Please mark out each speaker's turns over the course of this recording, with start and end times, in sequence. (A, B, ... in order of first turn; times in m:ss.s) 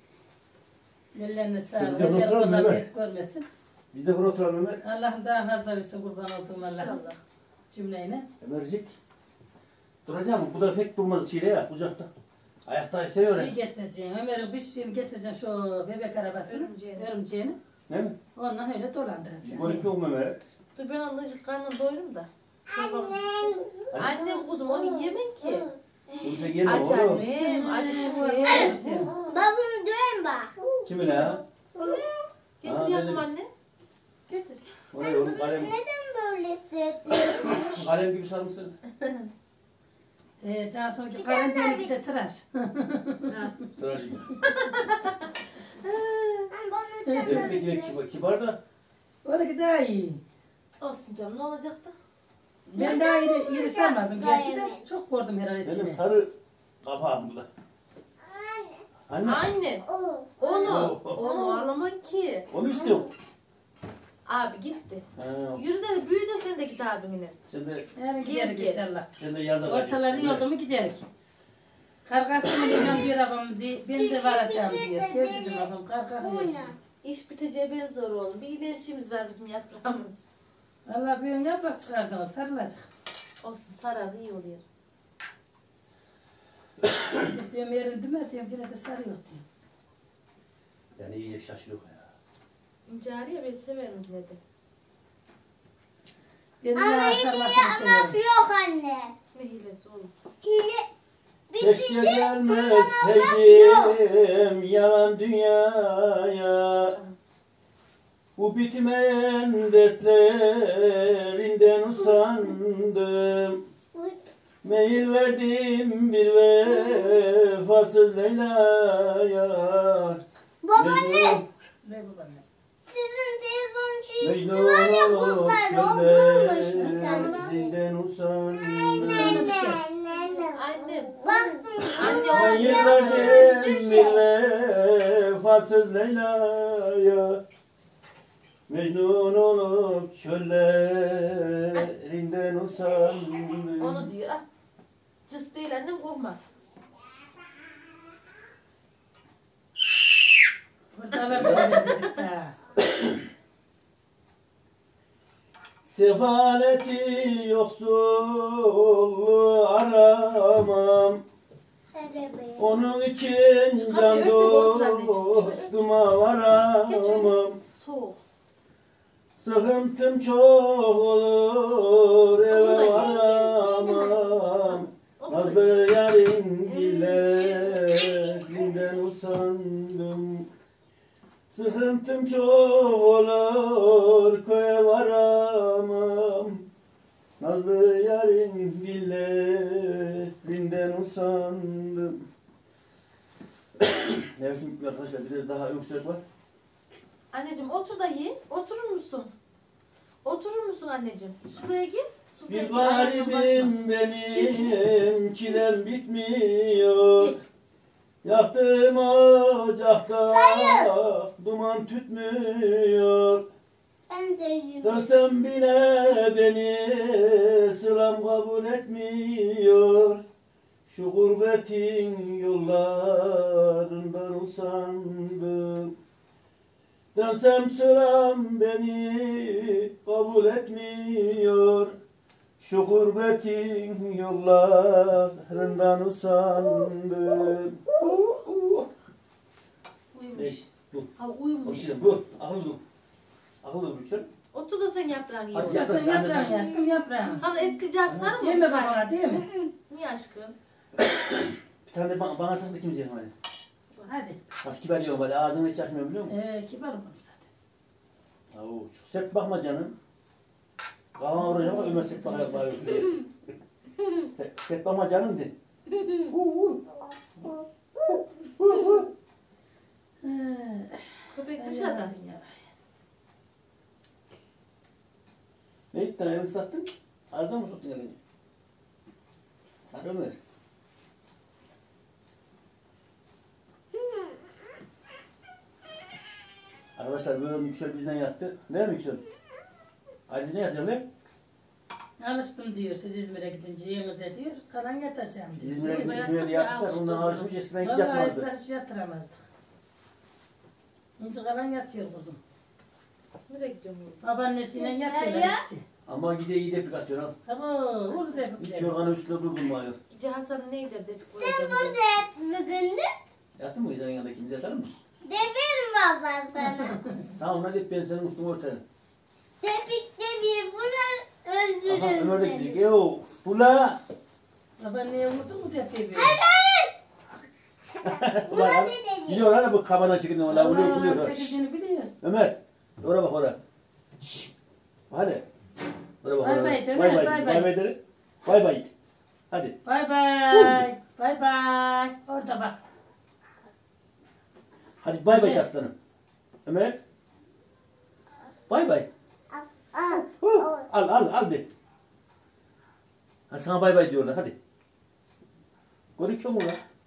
0:01.1-0:03.4 A
0:01.7-0:02.8 B
0:03.9-0:04.8 B
0:04.8-0:07.0 A
0:06.6-0:07.2 C
0:07.7-0:08.3 A
0:08.4-0:08.9 B
0:10.0-0:12.1 B
0:12.6-0:13.5 B
0:13.3-0:17.6 A
0:16.4-0:17.1 C
0:17.9-0:18.2 B
0:18.4-0:19.9 A
0:19.4-0:20.4 B
0:20.8-0:25.7 C
0:22.7-0:26.5 D
0:23.9-0:24.2 B
0:26.2-0:27.2 B
0:26.6-0:29.3 C
0:27.0-0:29.1 A
0:27.8-0:32.2 D
0:30.8-0:31.4 B
0:32.6-0:33.5 C
0:32.6-0:33.2 B
0:34.3-0:34.6 C
0:34.9-0:35.7 B
0:35.0-0:37.8 D
0:37.5-0:38.7 B
0:40.4-0:43.4 A
0:41.2-0:41.9 D
0:43.3-0:43.6 C
0:43.8-0:44.3 B
0:44.4-0:45.3 C
0:45.8-0:46.5 C
0:46.5-0:47.9 D
0:47.0-0:47.5 A
0:47.2-0:48.6 B
0:49.2-0:50.2 A
0:50.8-0:51.9 C
0:52.7-0:56.0 A
0:52.7-0:54.8 D
0:55.6-0:56.3 B
0:56.8-0:57.5 B
0:58.2-0:58.8 D
0:59.1-0:59.4 B
0:59.2-0:59.8 C
0:59.9-1:01.6 D
1:00.4-1:02.5 C
1:00.6-1:01.3 B
1:02.5-1:03.1 B
1:02.7-1:03.1 D
1:04.2-1:07.4 C
1:05.2-1:05.6 B
1:07.4-1:07.8 B
1:08.0-1:09.1 A
1:08.2-1:08.8 C
1:09.2-1:10.4 B
1:09.6-1:11.0 A
1:12.0-1:16.7 A
1:13.9-1:16.7 D
1:17.0-1:20.2 C
1:20.8-1:22.9 A
1:23.4-1:24.6 C
1:26.8-1:27.2 B
1:27.1-1:29.4 A
1:31.0-1:32.1 B
1:32.9-1:34.4 C
1:36.6-1:38.2 A
1:36.8-1:39.1 D
1:39.3-1:40.1 C
1:40.4-1:40.9 D
1:41.5-1:43.9 D
1:41.6-1:47.0 B
1:48.4-1:53.6 B
1:53.9-1:54.2 D
1:54.6-2:00.2 B
1:56.7-1:57.1 D
2:00.6-2:01.4 D
2:00.7-2:01.4 B
2:01.8-2:02.4 A
2:02.8-2:07.7 D
2:04.2-2:09.4 B
2:06.8-2:07.4 A
2:08.8-2:14.2 D
2:09.0-2:09.8 A
2:10.5-2:13.6 C
2:12.3-2:17.4 B
2:18.7-2:24.1 B
2:23.8-2:24.4 C
2:25.3-2:26.4 C
2:30.9-2:32.5 A
2:31.3-2:31.8 B
2:31.5-2:32.0 C
2:35.8-2:41.2 B
2:41.9-2:42.8 D
2:42.6-2:47.6 B
2:43.8-2:45.7 C
2:46.8-2:48.2 C
2:49.4-3:00.5 B
2:52.5-2:53.3 C
2:52.9-2:54.4 D
2:55.2-2:55.7 C
2:56.6-2:57.6 C
3:01.5-3:06.7 B
3:07.4-3:12.2 B
3:13.9-3:16.2 B
3:17.3-3:19.3 C
3:20.2-3:23.7 C
3:22.5-3:27.4 B
3:24.3-3:24.8 C
3:27.2-3:27.4 C
3:28.2-3:33.5 B
3:30.3-3:30.9 D
3:34.1-3:35.0 D
3:34.8-3:40.2 B
3:40.9-3:45.9 B
3:47.1-3:52.0 B
3:52.6-3:58.9 B
4:00.1-4:00.7 C
4:00.3-4:01.1 B
4:01.2-4:02.1 C
4:01.6-4:02.8 B
4:03.6-4:04.3 B
4:04.5-4:06.0 C
4:05.5-4:06.7 B
4:05.6-4:07.4 A
4:07.3-4:09.1 C
4:08.0-4:08.3 B
4:08.4-4:09.4 A
4:09.9-4:10.5 C
4:11.0-4:13.3 B
4:14.1-4:14.4 A
4:14.6-4:16.3 B
4:16.3-4:17.5 A
4:18.5-4:19.9 B
4:21.1-4:23.3 B
4:21.4-4:22.9 A
4:24.3-4:25.5 B
4:25.9-4:26.3 D
4:26.3-4:27.0 B
4:27.4-4:29.0 D
4:28.6-4:29.1 B
4:30.2-4:32.6 A
4:31.3-4:32.1 C
4:35.9-4:38.2 B
4:39.8-4:40.4 B
4:47.0-4:49.2 B
4:50.3-4:51.1 B
4:52.2-4:56.2 A
4:55.5-4:58.4 B
4:55.9-4:57.5 C
4:57.8-4:59.5 A
5:01.2-5:02.4 A
5:03.5-5:04.2 C
5:04.2-5:05.8 A
5:04.8-5:05.6 D
5:06.1-5:07.3 B
5:07.4-5:08.9 A
5:08.6-5:10.0 B
5:10.1-5:12.0 C
5:11.4-5:13.1 D
5:13.6-5:15.0 B
5:15.2-5:17.0 D
5:16.6-5:17.1 A
5:17.4-5:18.8 B
5:19.6-5:22.8 D
5:21.8-5:24.0 B
5:24.8-5:26.4 A
5:26.1-5:26.9 D
5:28.0-5:29.4 D
5:28.0-5:31.6 B
5:30.5-5:32.1 A
5:32.2-5:33.6 B
5:35.1-5:35.4 B
5:36.2-5:38.9 B
5:36.4-5:37.7 A
5:39.5-5:39.8 B
5:39.8-5:42.8 A
5:40.5-5:40.8 B
5:45.0-5:45.9 B
5:45.3-5:45.7 A
5:46.6-5:47.0 B
5:48.7-5:49.1 B
5:49.5-5:50.8 D
5:50.2-5:51.6 B
5:53.5-5:54.6 B
5:56.2-5:56.8 B